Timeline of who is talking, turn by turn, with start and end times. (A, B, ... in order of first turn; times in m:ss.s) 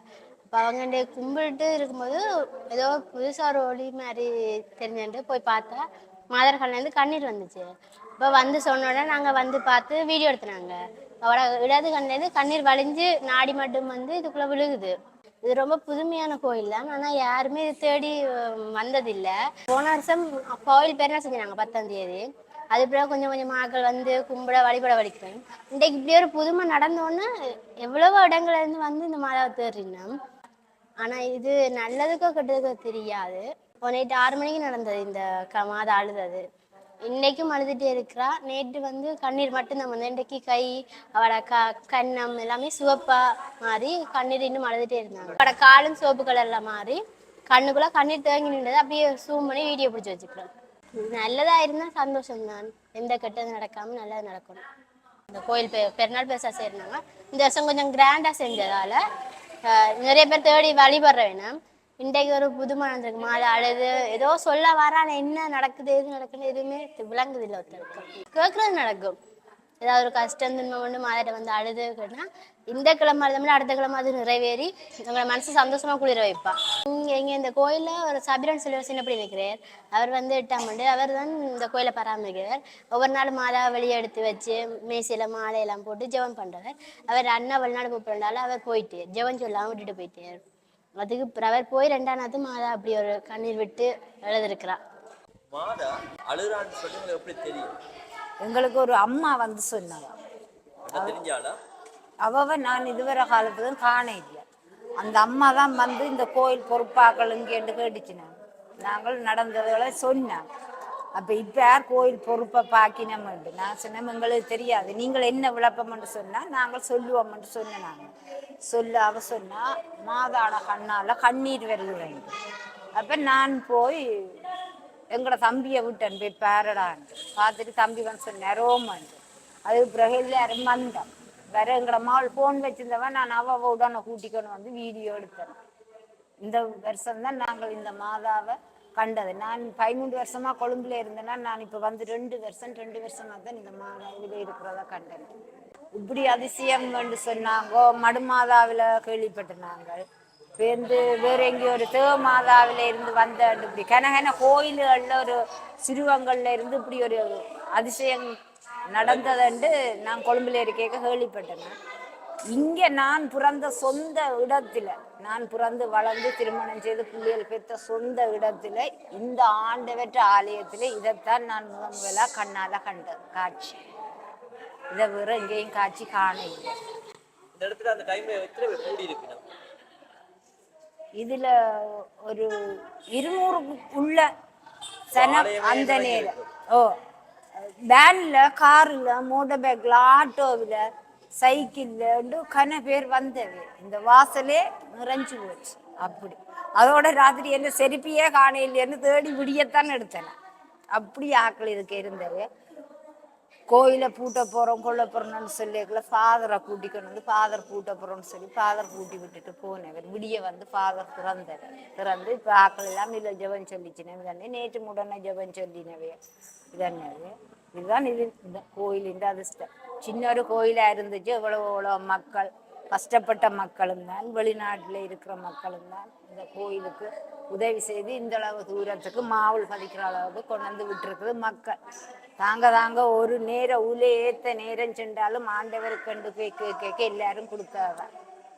0:00.5-0:07.7 A
0:08.2-0:27.3 A
0:27.8-0:30.1 A
0:31.0-0:36.4 A
0:37.0-0:54.6 A
0:55.3-0:59.0 A
0:59.6-1:09.2 A
1:09.8-1:30.4 A
1:31.0-1:34.8 A
1:35.5-1:37.7 B
1:38.4-1:40.1 C
1:40.9-1:41.6 B
1:42.2-1:44.4 C
1:45.0-1:48.3 C
1:48.8-1:50.4 C
1:51.1-1:58.1 C
1:58.6-2:02.3 C
2:02.9-2:04.4 C
2:05.1-2:15.6 C
2:16.4-2:25.3 C
2:25.9-2:30.0 C
2:30.6-2:38.3 C
2:38.9-2:41.7 C
2:39.0-2:39.4 B
2:42.5-2:53.8 C
2:54.9-2:56.7 C
2:57.5-2:59.4 B
3:01.2-3:04.2 C
3:05.1-3:06.5 B
3:05.1-3:06.9 C
3:07.6-3:10.8 C
3:11.4-3:20.3 C
3:20.9-3:22.4 C
3:23.7-3:36.2 C
3:36.7-3:51.8 C
3:52.4-3:58.1 C